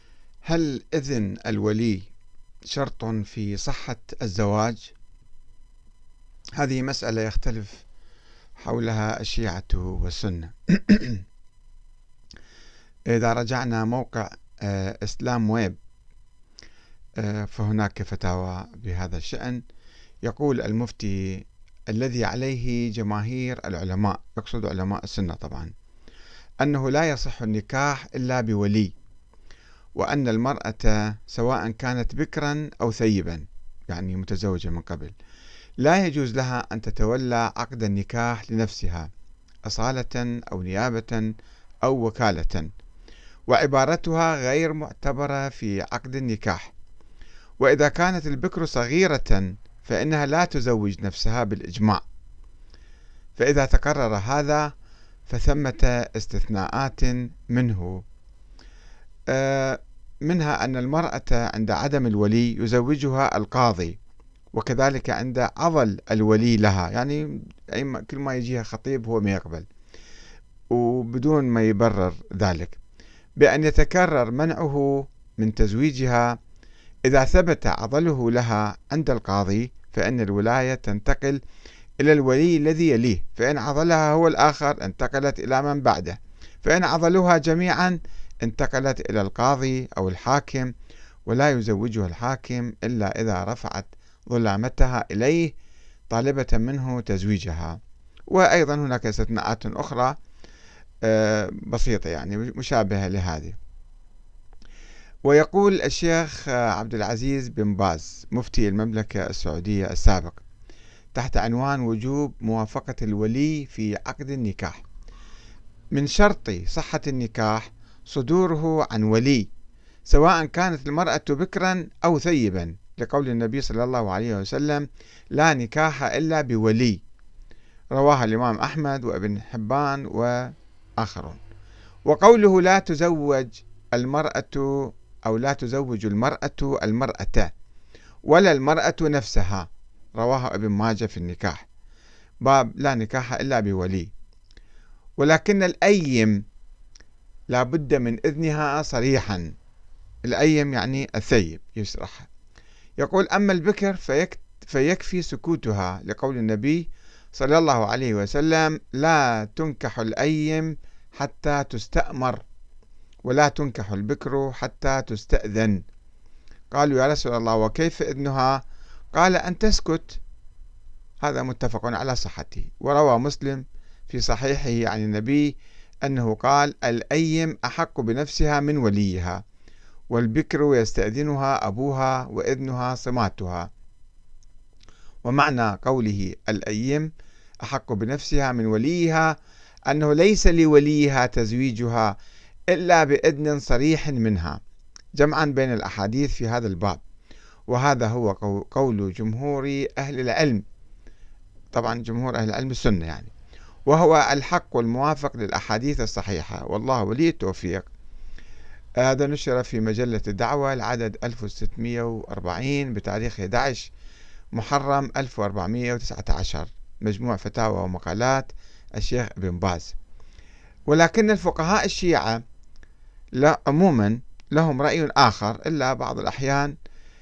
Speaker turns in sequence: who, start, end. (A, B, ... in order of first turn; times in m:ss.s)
0:00.5-0:02.1 A
0:02.7-0:04.9 A
0:06.6-0:07.8 A
0:08.6-0:11.2 A
0:13.1-0:15.8 A
0:17.2-0:19.6 A
0:20.2-0:25.7 A
0:26.6-0:28.9 A
0:30.0-0:35.1 A
0:35.8-0:39.1 A
0:39.6-0:41.3 A
0:41.8-0:42.7 A
0:43.5-0:46.7 A
0:47.6-0:52.0 A
0:53.4-0:54.7 A
0:55.3-0:58.0 A
0:59.3-1:04.0 A
1:04.5-1:09.6 A
1:10.7-1:12.8 A
1:13.4-1:16.4 A
1:17.0-1:21.4 A
1:22.0-1:30.7 A
1:31.2-1:35.5 A
1:36.1-1:37.8 A
1:38.3-1:40.2 A
1:41.0-1:43.6 A
1:45.2-1:50.4 A
1:51.1-1:54.8 A
1:55.9-1:59.5 A
2:00.1-2:07.0 A
2:07.9-2:11.4 A
2:12.0-2:17.5 A
2:18.3-2:21.7 A
2:22.4-2:24.1 A
2:25.2-2:26.4 A
2:27.5-2:29.5 A
2:30.2-2:32.3 A
2:33.0-2:42.4 A
2:43.2-2:45.8 A
2:46.7-2:50.2 A
2:51.2-2:55.5 A
2:56.0-2:59.4 A
3:00.1-3:03.7 A
3:05.2-3:07.1 A
3:07.6-3:09.4 A
3:09.9-3:12.2 A
3:12.7-3:14.6 A
3:15.2-3:17.0 A
3:17.7-3:20.6 A
3:21.7-3:23.3 A
3:23.9-3:27.9 A
3:29.0-3:33.9 A
3:34.5-3:40.0 A
3:40.9-3:42.4 A
3:43.4-3:46.7 A